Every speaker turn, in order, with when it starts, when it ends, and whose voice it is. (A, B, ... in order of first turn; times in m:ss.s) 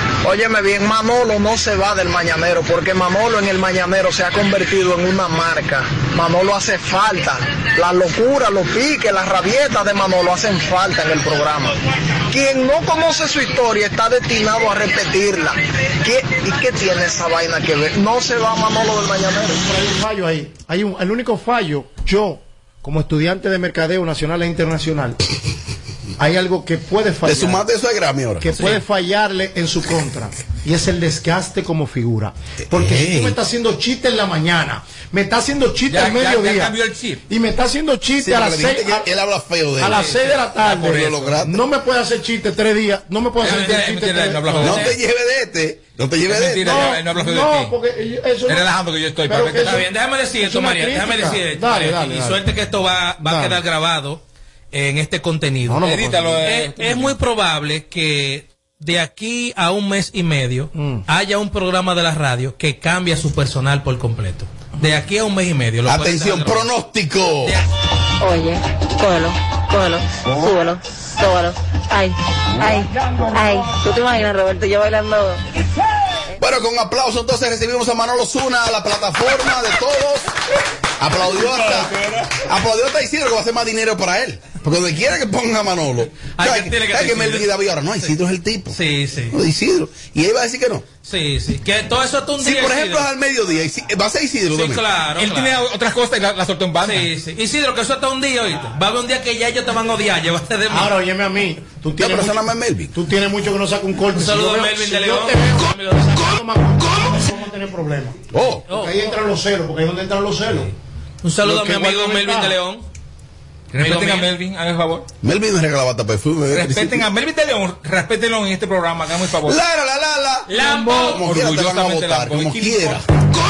0:00.2-0:11.7 A
0:12.3-0:19.6 A
0:19.6-0:25.2 B
0:26.2-0:27.6 B
0:27.2-0:28.5 C
0:28.4-0:36.8 B
0:32.7-0:33.4 C
0:35.9-0:37.2 D
0:37.3-0:39.1 B
0:38.2-0:40.1 C
0:39.8-0:44.9 B
0:40.0-0:41.4 D
0:40.8-0:41.6 C
0:43.4-0:45.0 D
0:44.6-0:46.8 C
0:46.2-0:47.7 D
0:46.6-0:48.7 B
0:48.4-0:49.8 D
0:49.2-0:49.9 B
0:49.6-1:06.7 E
0:50.4-0:52.4 B
0:53.2-0:53.6 B
0:55.6-0:56.5 B
0:55.8-0:57.2 D
1:00.7-1:01.0 B
1:05.9-1:07.6 C
1:08.2-1:15.4 F
1:16.4-1:20.3 C
1:21.0-1:28.8 C
1:26.3-1:28.1 E
1:28.7-1:29.4 E
1:29.3-1:30.8 C
1:31.0-1:33.1 E
1:32.4-1:34.8 C
1:34.5-1:35.6 E
1:35.2-1:37.1 D
1:36.8-1:40.9 E
1:40.7-1:50.7 B
1:42.0-1:42.9 C
1:44.1-1:46.2 E
1:48.3-1:48.7 C
1:48.7-1:49.1 E
1:51.2-1:52.8 E
1:51.4-1:52.6 B
1:53.7-1:55.1 D
1:53.8-1:54.3 E
1:55.2-1:57.1 C
1:56.5-1:59.6 D
1:59.4-2:03.0 C
2:00.5-2:03.0 D
2:00.6-2:01.2 E